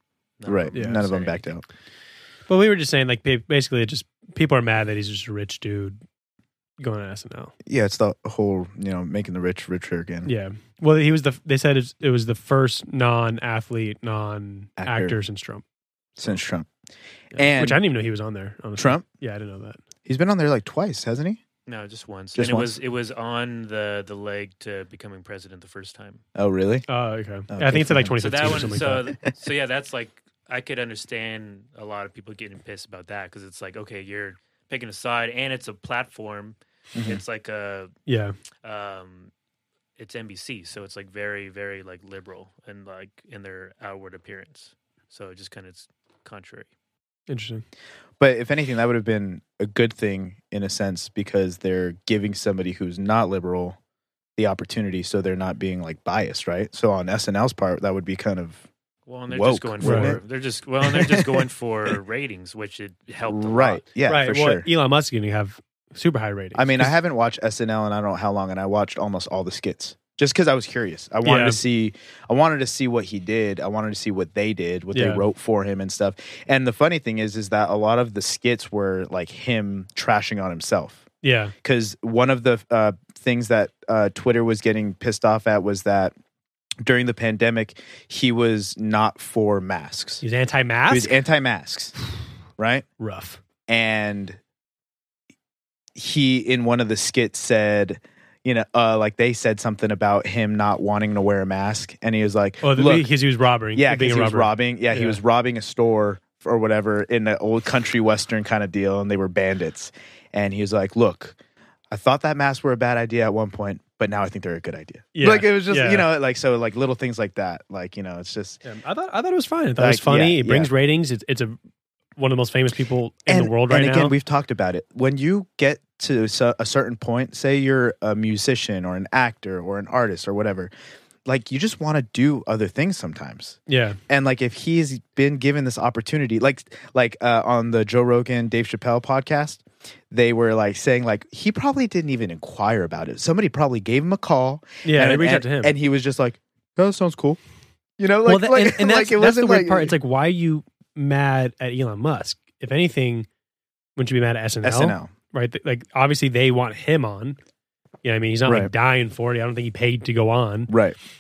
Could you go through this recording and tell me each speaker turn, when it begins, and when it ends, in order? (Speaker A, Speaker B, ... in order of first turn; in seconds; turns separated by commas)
Speaker A: 0.4-1.4, Speaker B: 0.5-1.6, Speaker C: 0.7-1.0, Speaker C: 2.5-6.0, Speaker C: 6.8-7.5, Speaker B: 7.6-10.3, Speaker C: 10.2-15.6, Speaker B: 14.8-15.2, Speaker B: 16.2-16.7, Speaker B: 17.4-17.8, Speaker C: 17.5-19.8, Speaker B: 18.8-19.0, Speaker B: 20.1-21.4, Speaker A: 21.6-26.2, Speaker B: 22.4-22.7, Speaker B: 26.3-26.9, Speaker C: 26.9-29.1, Speaker B: 27.5-28.7, Speaker A: 28.2-37.9, Speaker B: 36.9-37.2, Speaker C: 38.0-38.3, Speaker A: 38.6-39.3, Speaker A: 40.0-46.7, Speaker C: 47.3-47.6, Speaker B: 48.2-53.8, Speaker B: 54.4-58.6, Speaker A: 59.1-63.8, Speaker B: 59.3-60.2, Speaker C: 59.8-60.1, Speaker B: 60.8-61.4, Speaker B: 63.3-64.7, Speaker C: 64.0-66.9, Speaker B: 66.5-81.0, Speaker C: 71.2-71.6, Speaker C: 74.9-75.2, Speaker C: 81.2-81.5, Speaker B: 81.6-86.1, Speaker B: 86.8-90.2, Speaker C: 90.2-91.2, Speaker B: 90.9-91.9, Speaker B: 92.6-92.8, Speaker C: 93.0-93.4, Speaker B: 93.7-94.4, Speaker B: 95.9-103.1, Speaker C: 102.6-105.2, Speaker B: 103.7-111.3, Speaker B: 111.9-118.6, Speaker C: 115.1-116.1, Speaker C: 118.6-121.6, Speaker B: 119.8-120.7, Speaker C: 122.2-124.1, Speaker B: 123.3-130.7, Speaker B: 131.2-147.4, Speaker C: 133.7-134.0, Speaker C: 144.8-145.7, Speaker B: 148.0-149.9, Speaker C: 148.2-153.3, Speaker C: 153.9-157.4, Speaker B: 154.6-155.1, Speaker C: 158.0-160.7, Speaker B: 158.4-158.7, Speaker B: 160.7-161.0